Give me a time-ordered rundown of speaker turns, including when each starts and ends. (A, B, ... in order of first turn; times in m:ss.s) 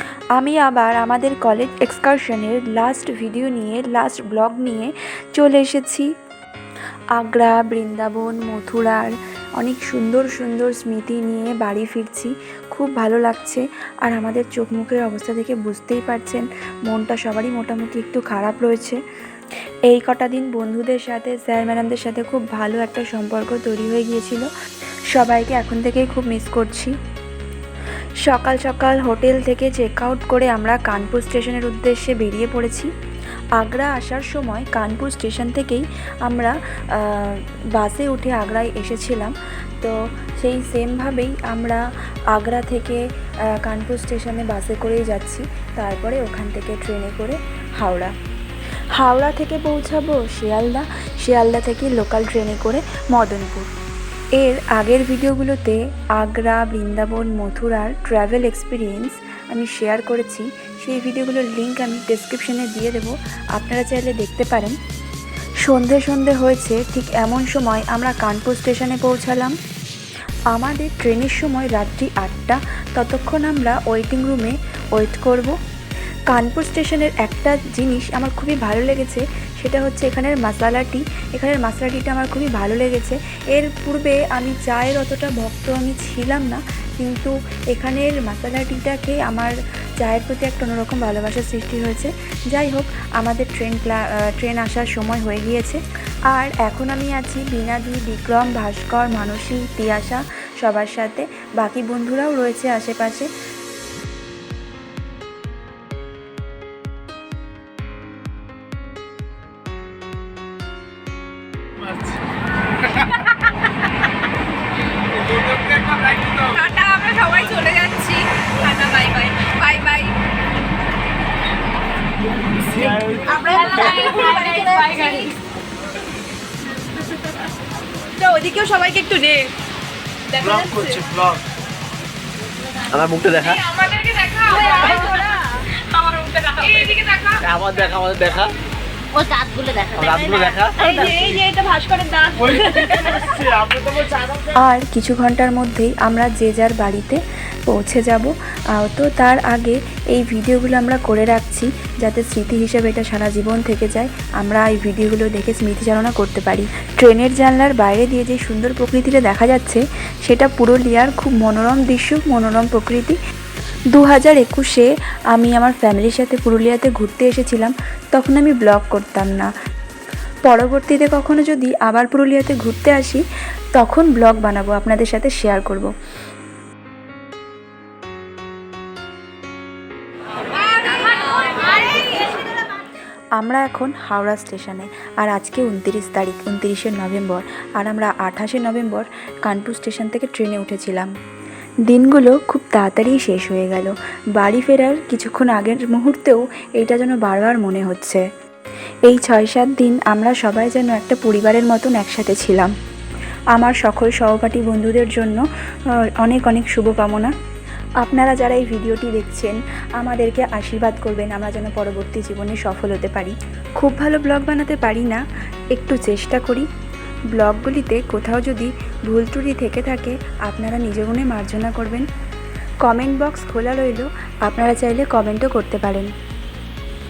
0:00.4-0:06.1 A
0:07.2-0:19.0 A
0:19.9-0:24.5 A
0:25.1-0:26.9 A
0:28.2-0:32.9 A
0:33.6-0:43.0 A
0:43.5-0:48.1 A
0:49.0-0:53.7 A
0:54.4-1:04.8 A
1:05.6-1:09.5 A
1:10.5-1:15.6 A
1:16.3-1:43.3 A
1:56.2-2:00.1 B
2:02.9-2:05.3 C
2:03.2-2:05.4 B
2:08.2-2:09.5 B
2:10.3-2:11.2 B
2:12.9-2:13.6 D
2:13.7-2:17.4 B
2:14.8-2:15.1 C
2:17.4-2:18.5 D
2:19.1-2:21.1 C
2:20.0-2:21.1 D
2:20.8-2:23.9 B
2:24.4-2:43.2 A
2:43.9-2:49.5 A
2:50.4-2:53.2 A
2:53.8-2:55.9 A
3:01.0-3:01.9 B
3:03.4-3:11.1 A
3:11.9-3:18.2 A
3:19.1-3:22.7 A
3:23.5-3:25.4 A
3:26.2-3:27.3 A
3:28.0-3:35.2 A
3:35.7-3:36.7 A
3:37.3-3:42.0 A
3:42.8-3:46.1 A